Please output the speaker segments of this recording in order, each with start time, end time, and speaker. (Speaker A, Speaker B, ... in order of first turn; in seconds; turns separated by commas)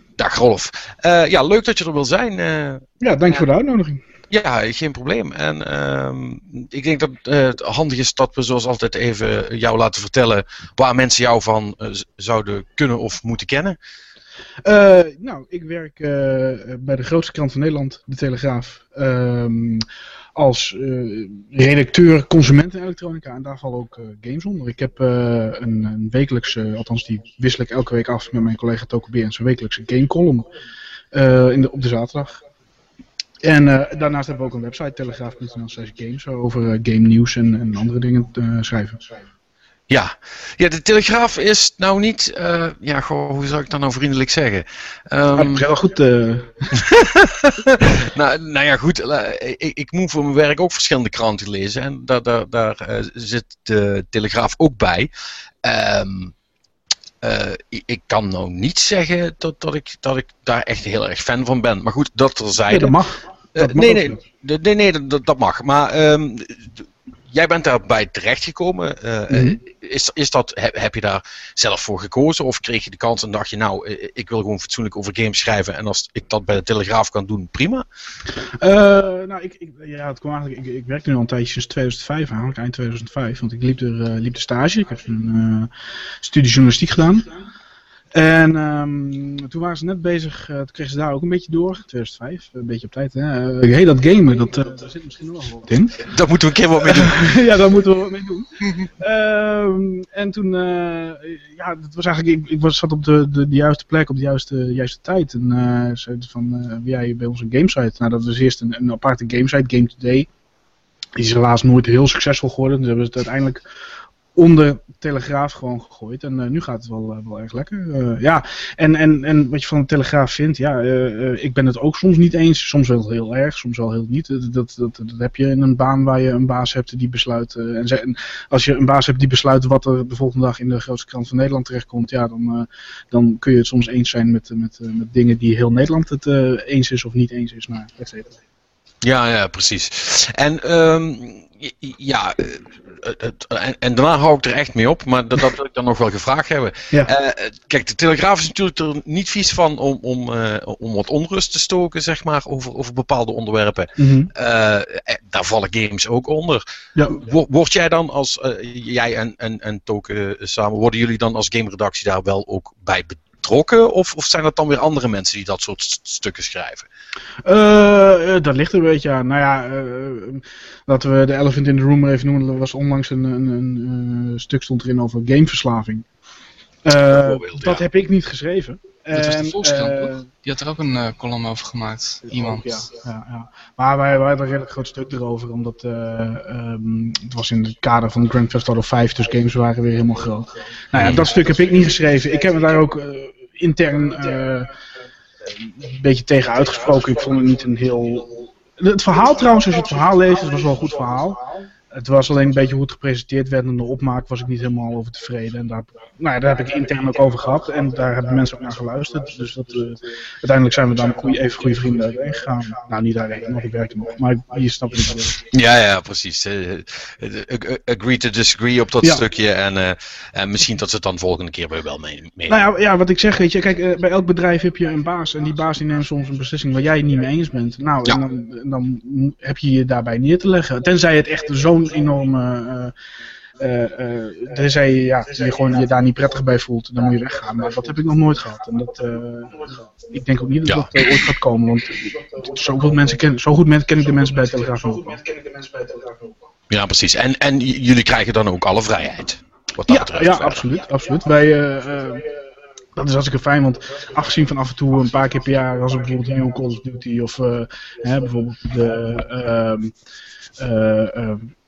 Speaker A: 0.2-2.8, Speaker B: 3.0-4.0, Speaker A: 4.3-13.8, Speaker B: 14.7-30.5, Speaker B: 31.1-32.4, Speaker B: 33.4-39.2, Speaker A: 39.9-45.7, Speaker B: 45.3-46.6, Speaker A: 46.7-55.1, Speaker A: 55.6-56.3, Speaker A: 57.2-63.0, Speaker B: 62.7-64.2, Speaker A: 63.5-77.9, Speaker B: 69.3-69.6, Speaker B: 78.4-85.7, Speaker B: 86.2-87.3, Speaker B: 88.1-96.0, Speaker A: 96.0-97.4, Speaker B: 96.8-110.3, Speaker B: 111.2-113.7, Speaker B: 114.3-138.4, Speaker A: 139.0-166.9, Speaker B: 154.0-154.3, Speaker B: 157.0-157.2, Speaker B: 167.4-176.1, Speaker B: 176.8-180.3, Speaker A: 177.1-177.8, Speaker C: 179.1-182.8, Speaker B: 182.3-194.7, Speaker A: 190.9-191.3, Speaker B: 195.7-215.4, Speaker A: 215.5-222.6, Speaker B: 222.5-232.9, Speaker B: 233.6-246.2, Speaker A: 240.7-241.0, Speaker A: 246.7-250.6, Speaker B: 249.9-252.3, Speaker B: 252.9-259.9, Speaker B: 260.6-261.5